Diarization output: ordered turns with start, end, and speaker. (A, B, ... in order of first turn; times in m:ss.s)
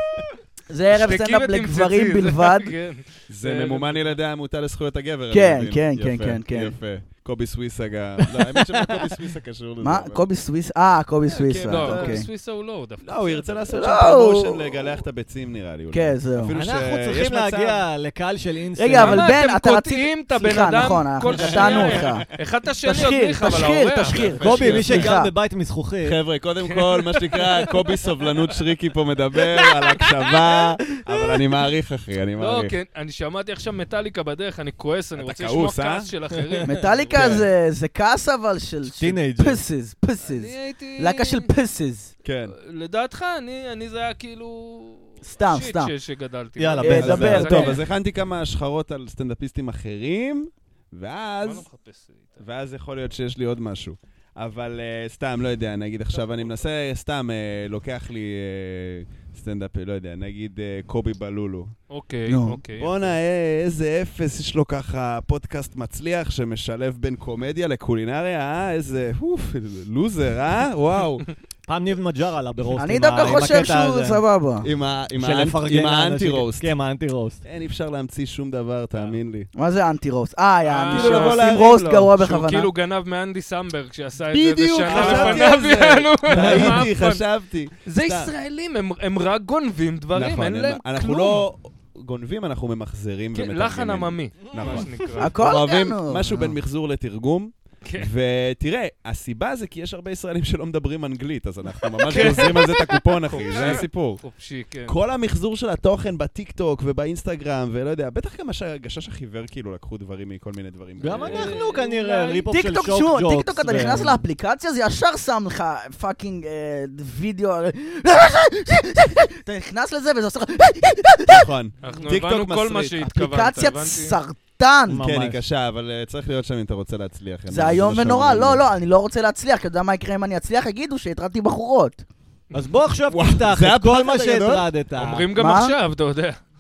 0:00.7-0:02.7 A
0:00.9-0:04.1 B
0:03.3-0:10.2 C
0:05.3-0:06.8 A
0:08.5-0:09.1 D
0:09.8-0:12.3 A
0:11.3-0:12.2 C
0:11.6-0:13.8 B
0:13.0-0:17.8 C
0:13.7-0:14.8 A
0:15.9-0:16.6 A
0:16.5-0:19.3 D
0:18.8-0:22.3 A
0:18.9-0:25.0 B
0:21.6-0:22.2 C
0:22.8-0:25.3 A
0:24.1-0:25.2 C
0:24.4-0:26.2 D
0:26.0-0:32.8 C
0:26.6-0:27.7 B
0:32.4-0:37.3 B
0:35.2-0:36.1 C
0:36.6-0:42.1 A
0:37.1-0:37.4 D
0:38.9-0:39.6 D
0:40.2-0:41.5 B
0:42.2-0:42.5 C
0:42.6-0:47.8 B
0:45.2-0:45.9 A
0:46.6-0:47.8 D
0:46.8-0:47.8 A
0:46.9-0:51.7 C
0:51.4-0:52.4 B
0:52.4-1:01.8 C
1:01.9-1:03.2 B
1:02.3-1:02.6 A
1:02.8-1:11.3 C
1:11.7-1:14.2 D
1:12.8-1:14.7 A
1:14.6-1:16.7 C
1:15.2-1:17.4 D
1:17.4-1:19.5 C
1:19.6-1:22.7 A
1:20.6-1:21.7 B
1:20.9-1:22.1 C
1:22.2-1:27.3 B
1:24.3-1:28.3 C
1:24.9-1:25.5 D
1:26.3-1:26.8 D
1:27.8-1:31.4 B
1:30.1-1:44.2 C
1:33.3-1:35.4 B
1:34.4-1:35.1 D
1:35.2-1:36.6 A
1:37.8-1:38.1 B
1:42.0-1:45.0 B
1:44.9-1:51.6 C
1:51.0-1:54.2 D
1:51.1-1:52.5 B
1:52.5-2:01.5 A
2:01.3-2:03.0 C
2:01.8-2:04.2 B
2:03.0-2:05.0 A
2:04.9-2:05.4 D
2:05.0-2:08.6 C
2:07.5-2:12.0 A
2:12.5-2:15.3 D
2:13.1-2:14.7 C
2:15.0-2:16.4 B
2:15.4-2:15.8 A